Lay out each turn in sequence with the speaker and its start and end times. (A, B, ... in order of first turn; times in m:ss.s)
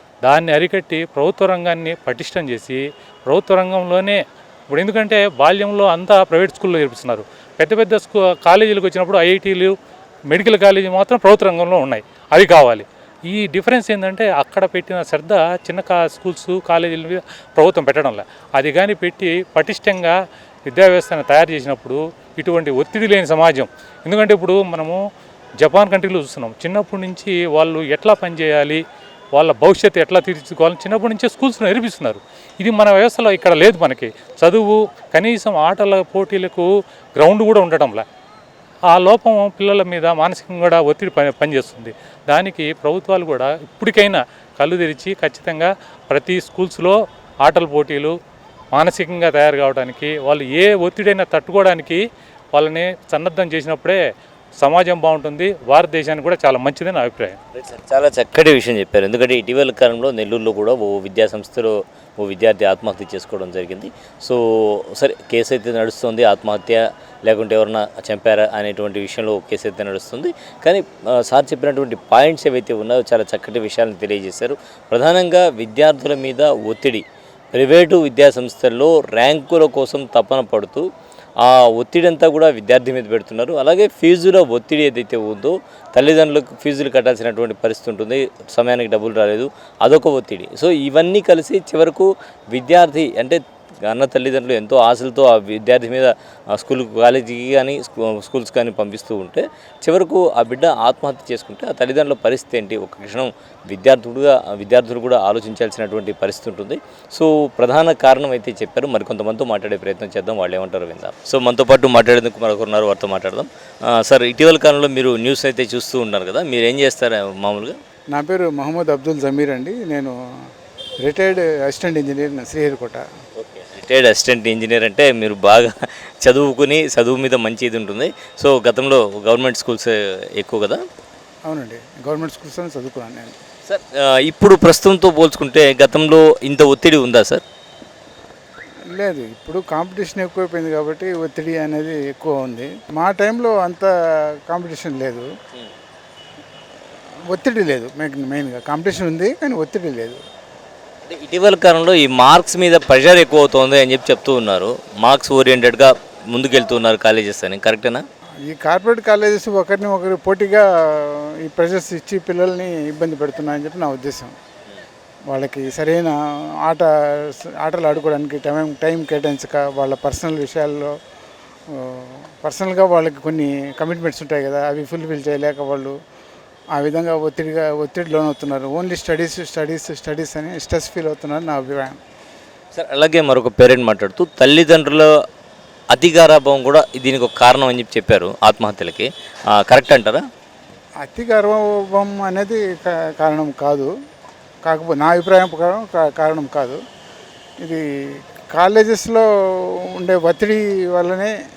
0:00.2-0:09.7 A
0:10.3-0:25.0 A
0:25.6-0:28.8 A
0:29.3-0:38.0 A
0:38.9-0:48.2 A
0:48.7-0:52.0 A
0:52.5-0:54.0 A
0:54.6-0:57.4 A
0:57.6-1:20.9 B
1:21.4-1:57.8 B
1:58.1-2:00.2 C
2:01.0-2:03.0 C
2:03.4-2:10.8 B
2:11.5-2:13.4 C
2:13.7-2:17.4 B
2:18.9-2:23.9 C
2:24.5-2:25.3 C
2:27.3-2:30.2 C
2:31.1-2:38.0 B
2:38.5-2:44.4 C
2:45.3-2:51.0 C
2:51.7-2:56.0 C
2:56.8-3:02.0 C
3:02.7-3:05.1 B
3:05.9-3:10.2 B
3:11.0-3:13.9 C
3:14.7-3:16.8 C
3:17.6-3:17.9 C
3:18.5-3:21.3 C